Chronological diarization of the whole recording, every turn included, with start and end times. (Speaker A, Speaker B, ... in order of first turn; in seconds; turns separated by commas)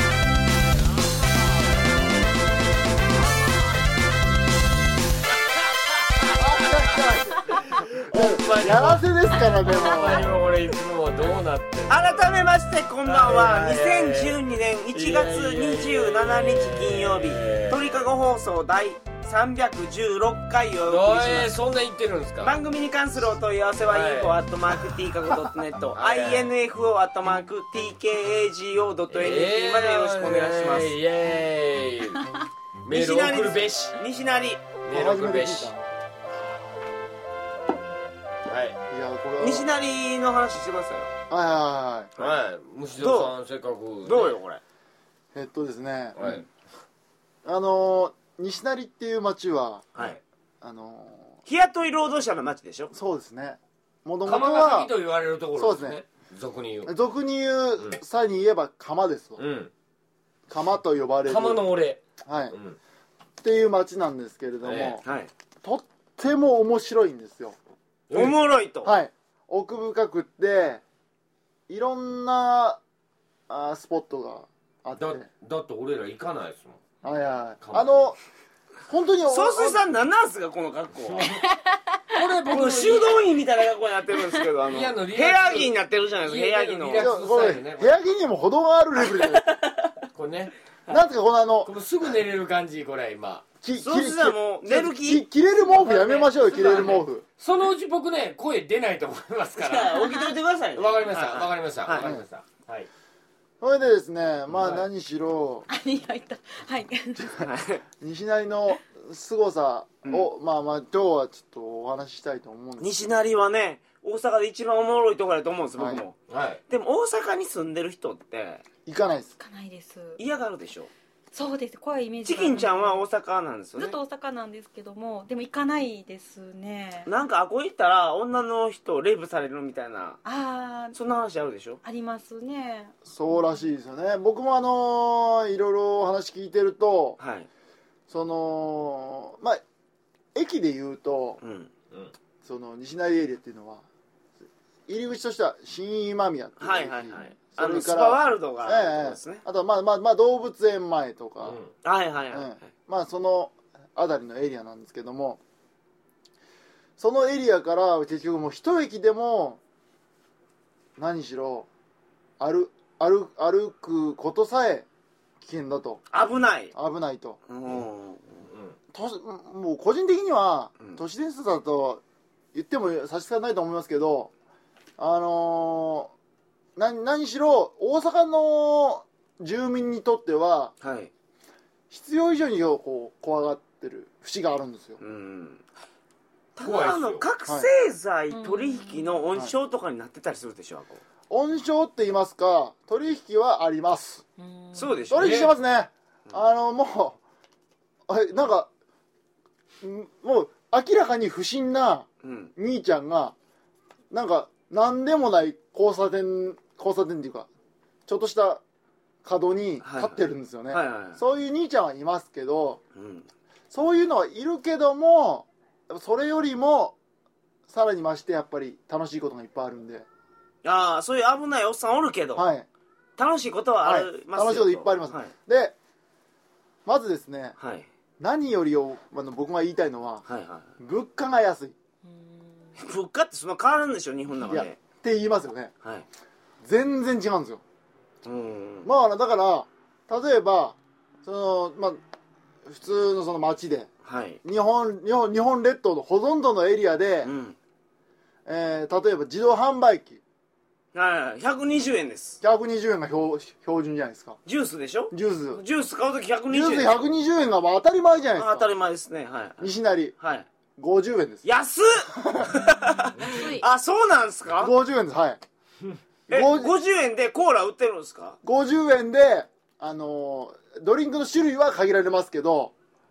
Speaker A: 1.0-1.8, Speaker A: 3.1-3.8, Speaker A: 5.9-7.0, Speaker B: 6.3-10.3, Speaker A: 7.9-12.3, Speaker C: 11.9-21.5, Speaker A: 13.1-14.4, Speaker A: 14.9-18.0, Speaker A: 20.9-22.6, Speaker C: 22.4-30.9, Speaker A: 23.9-24.4, Speaker A: 25.9-26.5, Speaker A: 29.1-32.3, Speaker A: 32.8-34.0, Speaker C: 32.9-34.7, Speaker A: 34.9-35.7, Speaker B: 34.9-35.8, Speaker A: 38.5-38.8, Speaker B: 38.9-39.7, Speaker C: 39.4-41.1, Speaker B: 41.3-42.1, Speaker A: 42.2-44.4, Speaker C: 43.0-43.3, Speaker C: 44.0-44.6, Speaker B: 45.3-46.2, Speaker A: 46.2-46.4, Speaker B: 47.5-49.9, Speaker B: 50.6-51.3, Speaker C: 51.5-52.9, Speaker B: 52.9-54.9, Speaker A: 54.2-56.9, Speaker B: 55.6-56.0, Speaker B: 56.9-59.4, Speaker A: 59.4-59.7, Speaker B: 60.5-61.6, Speaker A: 61.3-62.8, Speaker B: 62.2-62.6, Speaker B: 63.4-65.0, Speaker A: 64.6-65.0, Speaker C: 65.0-65.3, Speaker B: 65.6-67.6, Speaker A: 68.1-68.4, Speaker C: 68.1-68.9, Speaker B: 68.8-70.8, Speaker B: 71.7-72.8, Speaker B: 73.5-75.3, Speaker A: 75.0-76.9, Speaker B: 77.0-78.2, Speaker A: 77.6-78.1, Speaker B: 78.9-79.8, Speaker C: 79.3-81.3, Speaker A: 81.1-81.4, Speaker A: 82.1-83.2, Speaker C: 82.5-87.2, Speaker A: 84.7-88.0, Speaker B: 87.0-89.5, Speaker C: 89.1-89.9, Speaker A: 90.1-90.5, Speaker B: 90.9-91.7, Speaker A: 91.7-93.5, Speaker B: 93.6-97.2, Speaker C: 93.8-97.0, Speaker A: 96.6-100.0, Speaker C: 99.6-102.1, Speaker A: 100.8-102.9, Speaker B: 103.6-105.7, Speaker D: 105.7-107.4, Speaker B: 107.2-107.5, Speaker C: 107.4-107.8, Speaker B: 108.0-113.1, Speaker C: 110.0-110.3, Speaker C: 112.8-116.2, Speaker B: 115.8-116.0, Speaker A: 116.3-116.6, Speaker C: 116.7-118.6, Speaker B: 118.9-119.3, Speaker D: 119.4-120.2, Speaker C: 120.2-120.9, Speaker D: 121.3-123.1, Speaker C: 122.2-124.0, Speaker D: 123.8-127.1, Speaker C: 127.1-130.2, Speaker D: 130.2-131.0, Speaker C: 130.9-131.8, Speaker D: 131.8-133.7, Speaker B: 133.1-137.2, Speaker C: 137.2-137.5, Speaker B: 138.1-139.6, Speaker B: 140.3-141.4, Speaker C: 141.4-141.7, Speaker B: 142.4-143.8, Speaker B: 144.9-151.6, Speaker C: 146.6-149.4, Speaker A: 151.4-151.7, Speaker C: 151.8-152.7, Speaker B: 152.3-155.4, Speaker B: 157.0-159.6, Speaker B: 161.0-161.7, Speaker B: 162.4-164.9, Speaker B: 165.4-166.0, Speaker C: 166.1-166.7, Speaker B: 166.7-167.4, Speaker C: 167.5-168.5, Speaker B: 168.9-172.0, Speaker B: 172.5-174.3, Speaker B: 175.0-176.1, Speaker B: 176.8-180.7, Speaker C: 180.8-181.1, Speaker B: 181.9-185.0, Speaker C: 185.0-185.7, Speaker C: 186.6-191.0, Speaker A: 186.6-187.2, Speaker D: 188.3-189.1, Speaker B: 191.3-194.2, Speaker D: 194.4-194.9, Speaker C: 194.7-195.5, Speaker B: 195.1-197.2, Speaker A: 195.2-195.5, Speaker B: 198.1-198.7, Speaker B: 199.8-203.3, Speaker C: 202.2-202.5, Speaker B: 204.1-207.5, Speaker B: 208.1-208.6, Speaker B: 209.2-212.8, Speaker C: 209.8-211.2, Speaker C: 212.9-213.3, Speaker B: 213.7-217.0, Speaker B: 217.7-220.1, Speaker C: 220.6-222.5, Speaker B: 222.4-222.7, Speaker C: 223.2-225.3, Speaker B: 223.8-225.8, Speaker B: 226.9-227.6, Speaker C: 227.6-227.9, Speaker B: 228.2-230.2, Speaker C: 230.3-230.7, Speaker B: 230.8-231.8, Speaker D: 232.1-232.8, Speaker C: 232.8-234.8, Speaker B: 234.4-235.7, Speaker B: 236.6-237.6, Speaker C: 238.2-238.9, Speaker B: 238.8-242.0, Speaker B: 242.7-243.9, Speaker C: 244.1-244.4, Speaker B: 244.4-247.3, Speaker C: 247.2-247.6, Speaker B: 248.5-250.2, Speaker C: 250.9-252.4, Speaker B: 252.4-254.4, Speaker C: 254.5-257.0, Speaker B: 255.1-255.6, Speaker B: 256.5-258.7, Speaker C: 258.4-260.5, Speaker B: 259.6-260.1, Speaker B: 260.8-261.4, Speaker C: 261.4-264.7, Speaker B: 262.1-262.6, Speaker D: 262.5-263.6, Speaker B: 264.6-265.4, Speaker B: 266.3-266.7, Speaker C: 266.3-268.4, Speaker B: 268.4-272.7